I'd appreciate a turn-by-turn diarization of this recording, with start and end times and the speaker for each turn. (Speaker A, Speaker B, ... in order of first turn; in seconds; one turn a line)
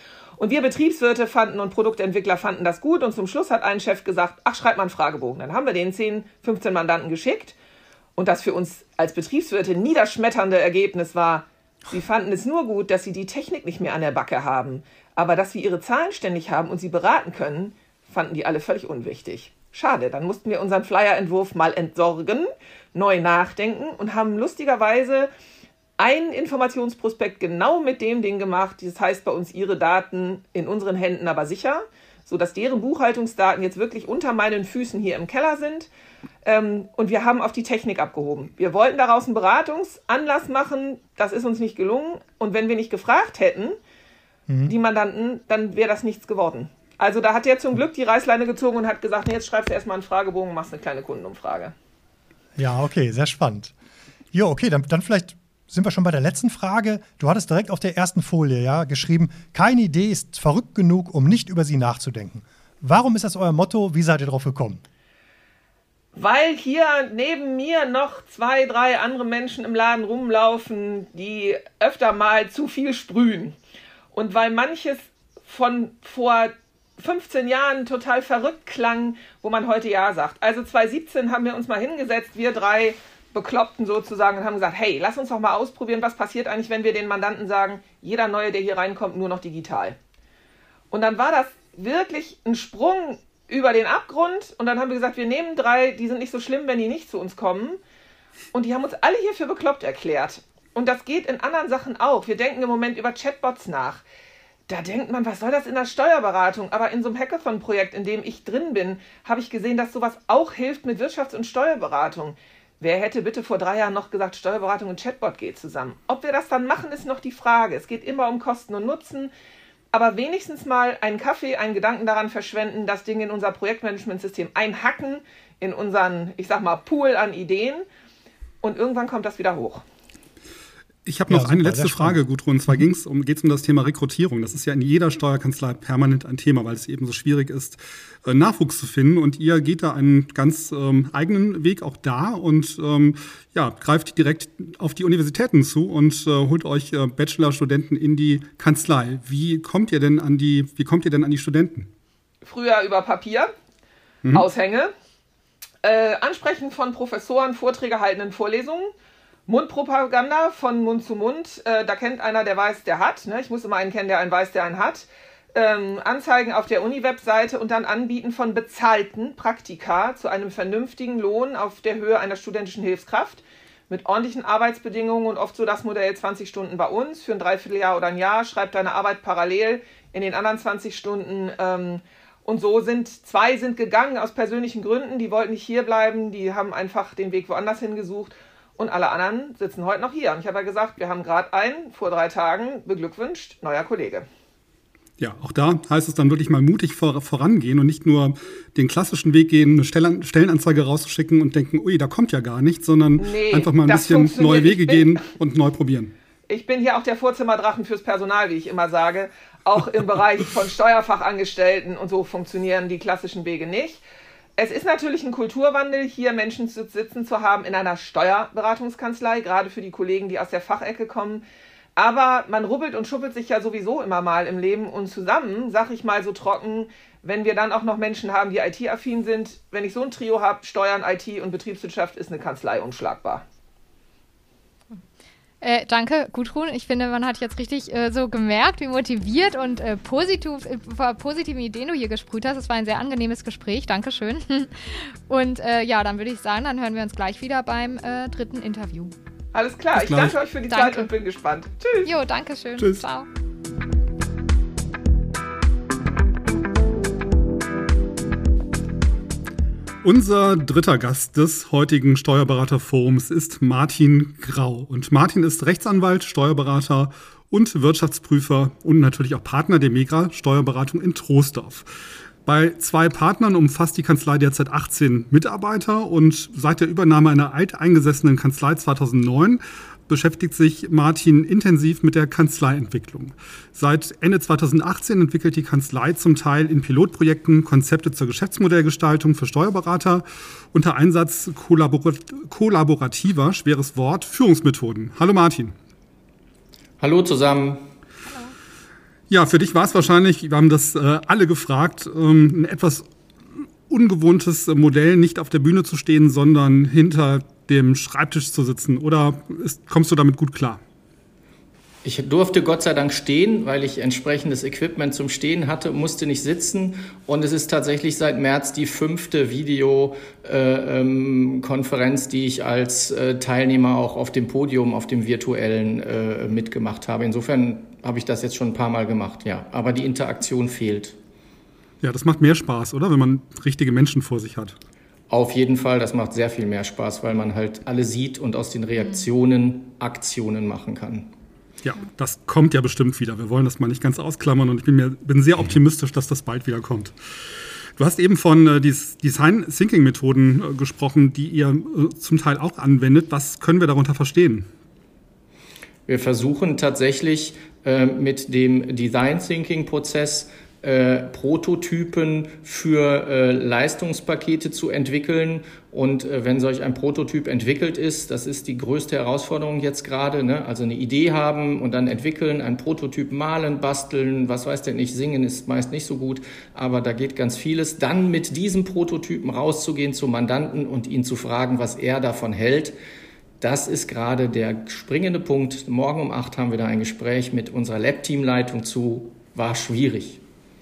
Speaker A: 0.4-7.5
Speaker A: 8.2-25.3
Speaker A: 26.0-35.9
Speaker A: 36.4-43.8
Speaker B: 44.5-44.7
Speaker A: 44.7-51.7
Speaker B: 52.6-53.7
Speaker B: 54.3-64.8
Speaker A: 66.1-73.5
Speaker A: 74.1-90.0
Speaker A: 90.9-97.8
Speaker A: 98.5-104.0
Speaker A: 104.7-119.3
Speaker A: 119.9-127.8
Speaker A: 128.6-129.8
Speaker C: 131.0-151.9
Speaker B: 131.3-132.8
Speaker A: 152.4-153.5
Speaker A: 154.3-154.9
Speaker A: 155.8-158.9
Speaker A: 159.5-194.3
Speaker C: 195.2-206.1
Speaker A: 203.2-205.2
Speaker A: 206.5-214.0
Speaker A: 214.6-221.4
Speaker A: 222.0-233.4
Speaker D: 235.6-249.1
Speaker A: 249.5-252.1
Speaker C: 249.9-250.3
Speaker D: 250.7-251.1
Speaker D: 252.0-253.3
Speaker C: 252.8-253.0
Speaker C: 260.0-271.9
Speaker C: 272.4-295.7
Speaker E: 297.0-297.9
Speaker C: 299.3-303.0
Speaker C: 303.9-310.8
Speaker E: 312.0-331.2
Speaker C: 332.0-334.7
Speaker E: 335.3-341.3
Speaker D: 339.0-339.3
Speaker C: 341.8-347.1
Speaker C: 348.0-354.7
Speaker E: 356.1-382.9
Speaker E: 383.6-390.4